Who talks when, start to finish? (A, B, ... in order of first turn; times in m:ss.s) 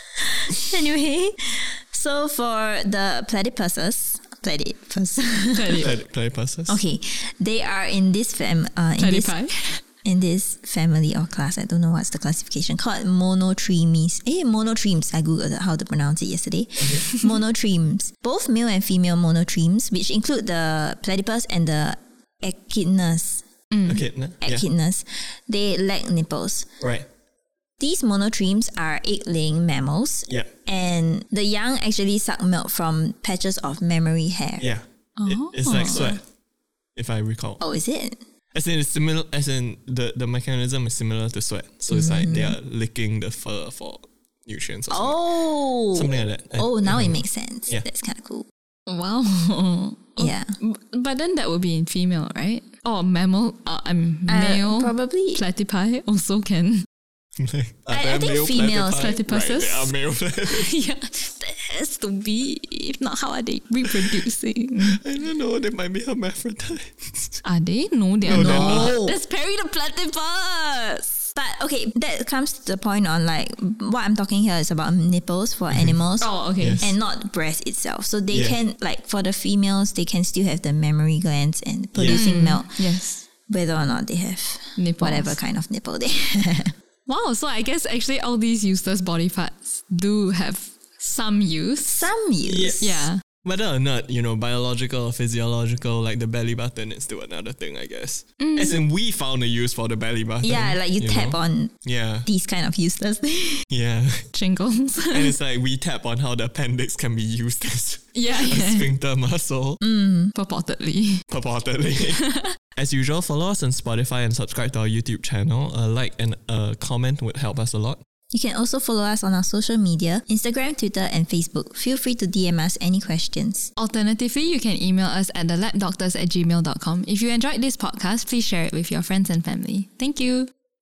0:00.3-0:05.9 A
0:05.5-0:05.9 B
0:05.8-0:06.8 C
0:06.7-0:09.3 A
0:09.0-0:09.8 B
0:10.0-0:23.4 A
0:23.7-0:24.0 B
0:23.8-0:24.6 C
0:24.4-0:26.7 A
0:26.8-0:27.1 C
0:27.8-0:34.7 A
0:34.6-0:36.2 C
0:35.2-0:36.2 B
0:37.0-0:37.6 C
0:37.6-0:38.2 A
0:38.5-0:45.2 C
0:41.9-0:42.5 A
0:44.9-0:48.5 A
0:45.9-0:47.8 C
0:48.9-0:56.8 B
0:50.2-0:50.5 A
0:54.3-0:55.4 A
0:57.4-1:00.7 C
0:57.9-0:59.2 A
0:58.9-1:05.0 B
1:03.8-1:04.3 C
1:04.8-1:07.4 C
1:07.4-1:11.3 B
1:08.2-1:09.0 C
1:08.3-1:09.2 A
1:11.4-1:22.8 A
1:15.7-1:16.0 C
1:16.2-1:16.9 B
1:16.6-1:16.9 C
1:21.9-1:22.3 C
1:22.1-1:23.2 B
1:23.5-1:26.7 A
1:24.8-1:25.4 B
1:27.1-1:32.1 B
1:31.8-1:32.9 A
1:32.4-1:42.3 C
1:32.8-1:33.2 B
1:38.4-1:38.8 B
1:40.4-1:41.7 A
1:42.2-1:43.7 A
1:43.7-1:44.3 C
1:44.3-1:45.3 B
1:45.1-1:49.8 C
1:48.1-1:48.9 B
1:49.8-1:50.3 A
1:50.3-1:51.2 B
1:51.3-1:52.2 C
1:52.1-1:52.5 B
1:52.8-1:58.0 C
1:58.3-2:03.7 A
2:03.8-2:10.5 B